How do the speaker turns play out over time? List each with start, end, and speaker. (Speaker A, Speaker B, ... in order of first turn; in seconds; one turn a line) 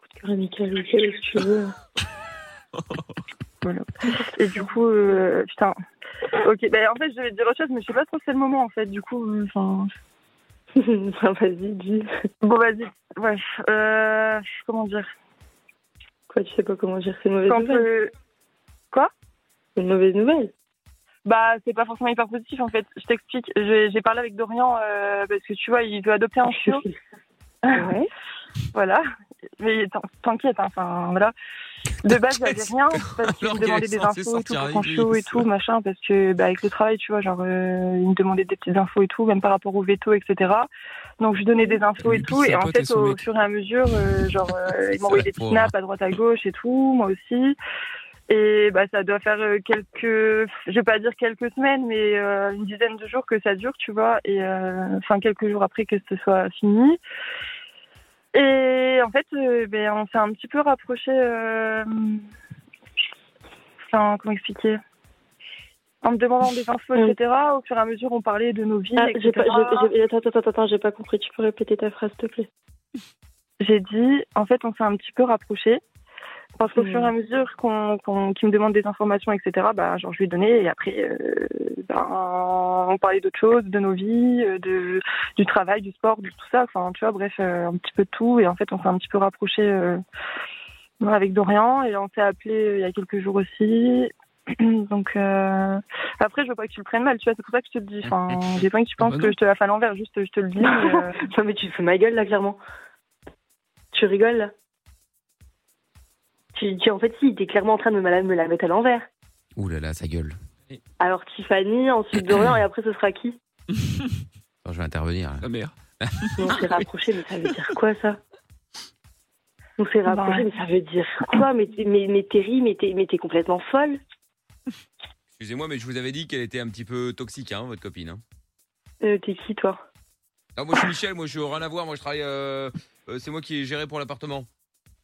Speaker A: 0.1-1.8
Speaker B: 3.6-5.8
Speaker B: 6.4-9.9
Speaker A: 10.8-12.1
Speaker B: 12.4-15.1
Speaker A: 16.3-17.9
Speaker B: 17.5-18.1
Speaker A: 19.8-20.5
Speaker B: 21.2-26.8
Speaker A: 26.5-26.9
Speaker B: 27.6-27.9
Speaker A: 27.8-28.1
Speaker B: 28.7-29.0
Speaker B: 29.6-31.3
Speaker B: 32.0-40.7
Speaker C: 32.5-33.2
Speaker D: 33.3-35.5
Speaker B: 41.2-47.6
Speaker C: 42.0-43.2
Speaker D: 44.9-45.7
Speaker B: 48.3-57.0
Speaker B: 58.3-62.2
Speaker B: 63.9-64.8
Speaker B: 66.0-69.9
Speaker A: 68.9-72.5
Speaker B: 73.6-75.8
Speaker B: 76.6-90.0
Speaker A: 76.7-77.2
Speaker B: 91.0-101.1
Speaker D: 98.1-98.4
Speaker C: 99.0-99.3
Speaker A: 100.6-102.6
Speaker A: 103.9-104.5
Speaker A: 106.5-109.1
Speaker D: 109.5-110.4
Speaker A: 111.0-113.4
Speaker D: 114.6-115.5
Speaker C: 115.4-116.5
Speaker D: 116.0-116.7
Speaker A: 116.4-118.2
Speaker A: 119.8-124.0
Speaker B: 120.1-120.5
Speaker D: 125.4-128.2
Speaker A: 129.0-129.8
Speaker D: 130.6-134.5